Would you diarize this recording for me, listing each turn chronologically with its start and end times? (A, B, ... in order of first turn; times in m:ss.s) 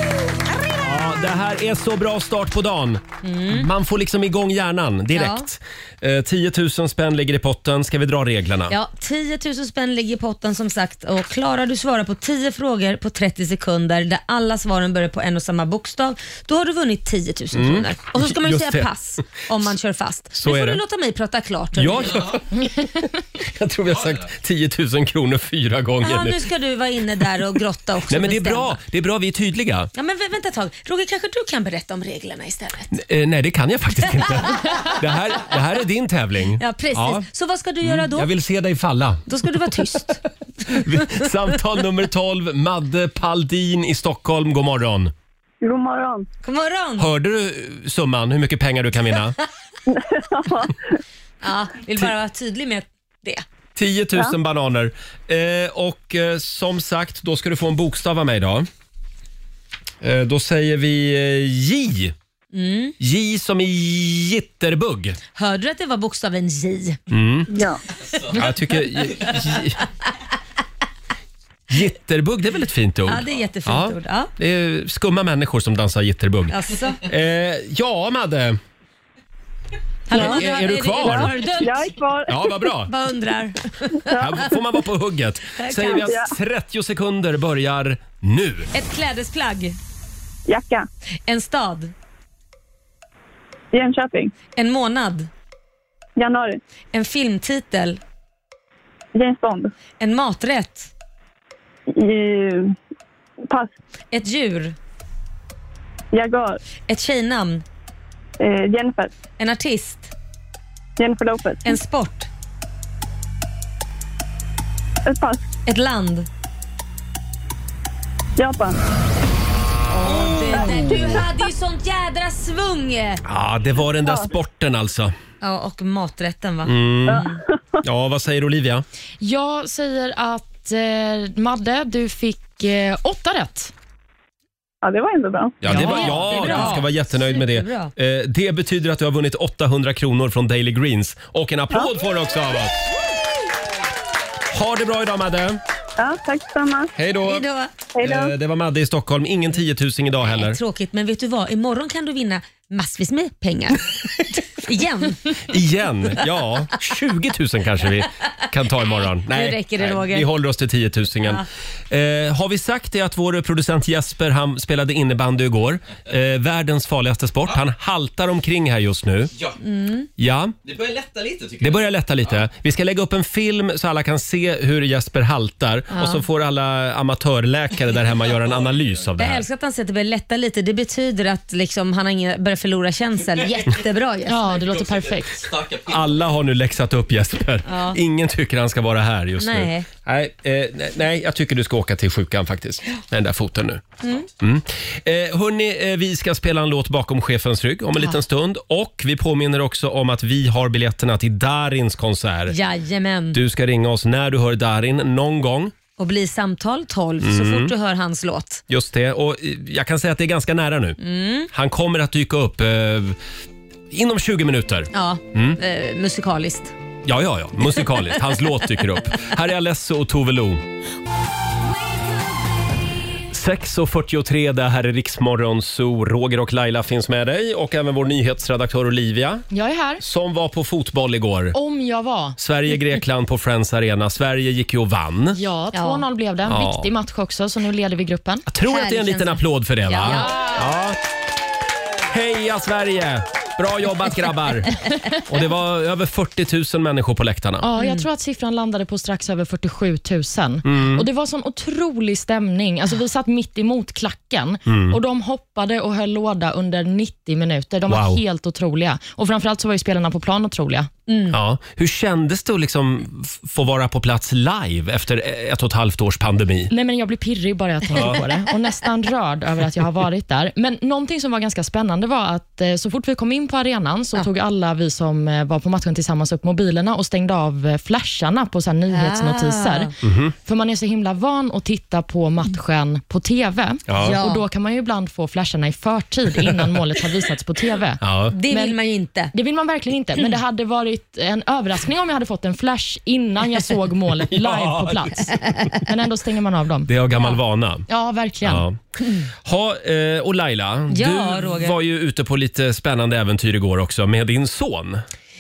0:00.8-0:08.7 A
0:03.2-0:03.7 B
0:05.1-0:05.5 B
0:08.7-0:22.3 B
0:17.5-0:19.4 A
0:20.4-0:20.8 A
0:21.8-0:26.4 A
0:26.0-0:28.8 B
0:28.1-0:29.9 A
0:30.0-0:32.9 B
0:33.0-0:37.2 A
0:34.2-0:34.9 B
0:36.6-0:38.3 B
0:37.8-0:39.2 A
0:39.3-0:41.3 B
0:40.7-0:45.1 A
0:45.6-0:46.3 C
0:46.4-0:47.1 B
0:47.0-0:49.4 A
0:49.9-0:50.7 C
0:51.4-0:53.4 B
0:53.8-0:58.7 A
1:00.0-1:02.1 A
1:02.5-1:03.0 B
1:03.0-1:05.2 A
1:05.4-1:07.0 B
1:07.1-1:07.5 A
1:07.5-1:07.8 C
1:08.1-1:08.4 D
1:08.3-1:09.8 A
1:11.7-1:18.6 A
1:13.1-1:14.3 B
1:16.5-1:17.0 B
1:20.1-1:22.0 B
1:20.1-1:21.4 A
1:20.1-1:22.6 C
1:22.3-1:22.9 A
1:22.9-1:24.5 B
1:24.2-1:28.7 A
1:25.6-1:26.2 B
1:25.9-1:26.3 C
1:28.7-1:29.8 B
1:30.5-1:30.9 C
1:31.3-1:31.9 B
1:33.7-1:34.3 C
1:34.6-1:35.3 B
1:36.2-1:36.6 C
1:36.9-1:38.0 B
1:39.2-1:39.7 C
1:40.0-1:40.9 B
1:41.9-1:42.8 C
1:44.1-1:44.8 B
1:46.1-1:46.6 C
1:46.9-1:47.6 B
1:48.4-1:49.1 C
1:49.4-1:50.1 B
1:51.0-1:51.8 C
1:51.6-1:52.3 B
1:55.1-1:55.5 C
1:55.7-1:56.3 B
1:58.4-1:58.8 C
2:00.0-2:03.2 B
2:03.3-2:05.1 A
2:05.4-2:07.4 B
2:06.6-2:07.3 A
2:07.8-2:08.8 A
2:09.2-2:13.7 E
2:14.8-2:15.6 C
2:15.6-2:22.8 A
2:15.7-2:17.9 B
2:15.7-2:16.8 E
2:24.5-2:25.6 A
2:26.0-2:26.9 C
2:27.0-2:27.4 A
2:27.2-2:27.7 B
2:28.0-2:28.3 C
2:28.0-2:30.6 A
2:30.3-2:33.9 B
2:34.5-2:35.4 B
2:35.5-2:49.3 A
2:38.8-2:40.3 B
2:49.6-2:50.1 B
2:50.2-2:50.6 A
2:50.6-2:52.3 D
2:51.6-2:59.4 A
2:55.9-2:56.2 B
2:58.3-2:58.9 D
2:59.2-3:04.6 B
3:04.3-3:05.5 E
3:04.6-3:06.3 D
3:05.9-3:22.6 A
3:07.7-3:08.0 B
3:09.4-3:09.9 B
3:22.5-3:23.4 B
3:23.3-3:25.7 A
3:26.0-3:28.6 B
3:27.2-3:27.7 A
3:28.7-3:31.0 A
3:31.0-3:31.5 B
3:31.5-3:33.2 A
3:33.9-3:35.6 A
3:34.9-3:36.7 B
3:37.0-3:40.6 A
3:43.3-3:49.5 A
3:49.5-3:50.0 E
3:50.0-3:51.6 A
3:51.5-3:52.4 E
3:52.4-3:55.4 A
3:55.3-3:58.4 E
3:55.7-3:56.0 B
3:56.5-3:56.9 A
3:58.5-4:01.0 A
3:58.7-4:00.5 B
4:02.1-4:07.6 A
4:07.6-4:20.9 E
4:07.8-4:08.0 B
4:10.6-4:11.0 A
4:14.7-4:15.0 A
4:17.9-4:18.2 A
4:21.1-4:21.4 B
4:21.3-4:26.7 A
4:26.7-4:39.9 E
4:27.9-4:28.2 A
4:38.9-4:39.9 B
4:40.0-4:40.3 A
4:40.4-4:48.8 E
4:43.9-4:44.2 A
4:44.0-4:44.4 B
4:48.0-4:48.3 A
4:48.3-4:49.3 B
4:49.3-4:56.9 E
4:54.3-4:55.7 A
4:56.9-4:57.9 A
4:57.9-4:58.6 E
4:58.4-4:58.8 A
4:59.0-4:59.3 B
4:59.4-5:05.0 A
5:00.9-5:01.8 B